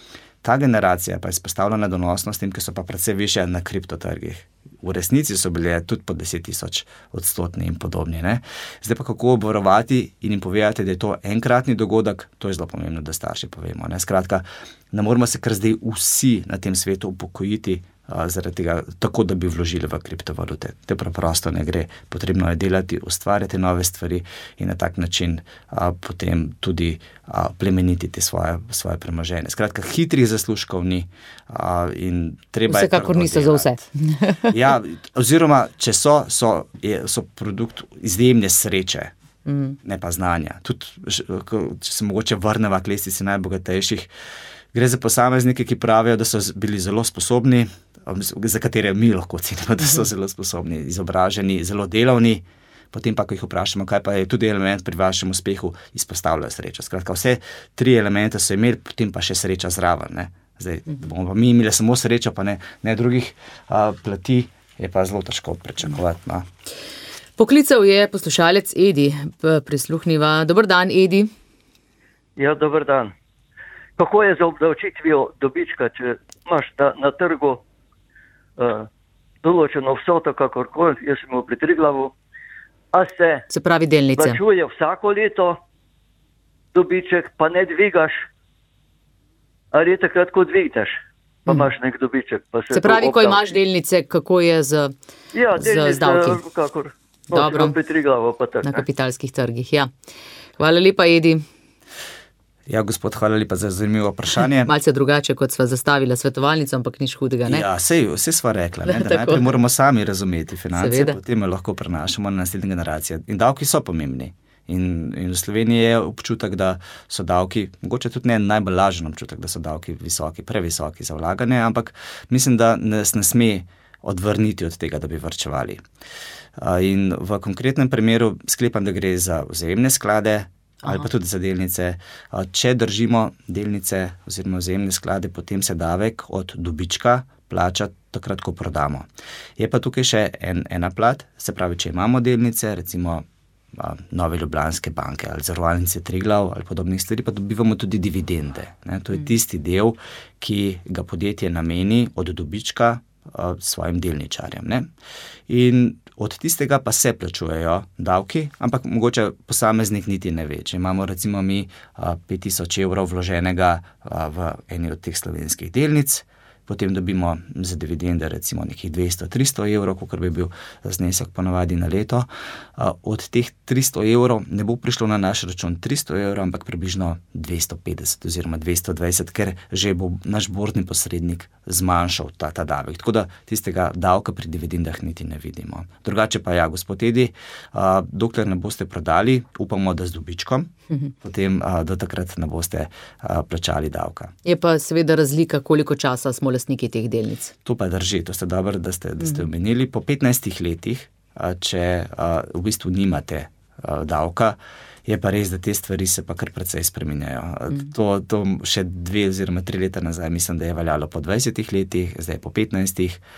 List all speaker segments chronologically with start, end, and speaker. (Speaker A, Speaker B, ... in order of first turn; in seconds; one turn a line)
Speaker A: 0.4-33.7
Speaker B: 32.7-34.5
Speaker A: 34.5-39.1
Speaker B: 39.5-39.8
Speaker A: 39.8-44.1
Speaker A: 44.7-66.5
Speaker B: 67.4-71.3
Speaker C: 72.4-73.1
Speaker C: 74.0-77.6
Speaker C: 78.6-78.9
Speaker C: 79.4-82.1
Speaker C: 82.9-83.5
Speaker B: 83.5-84.4
Speaker C: 84.2-85.6
Speaker C: 86.7-88.2
Speaker C: 89.7-90.9
Speaker C: 91.5-93.4
Speaker B: 92.7-94.9
Speaker C: 95.3-98.8
Speaker B: 95.5-96.4
Speaker B: 97.3-97.7
Speaker B: 98.6-99.9
Speaker B: 100.6-101.4
Speaker A: 102.7-104.7
Speaker B: 104.6-107.7
Speaker A: 107.5-125.8
Speaker B: 108.9-109.4
Speaker B: 110.7-111.2
Speaker A: 126.6-154.9
Speaker A: 155.5-190.7
Speaker A: 191.2-194.3
Speaker B: 194.4-197.5
Speaker A: 197.6-213.2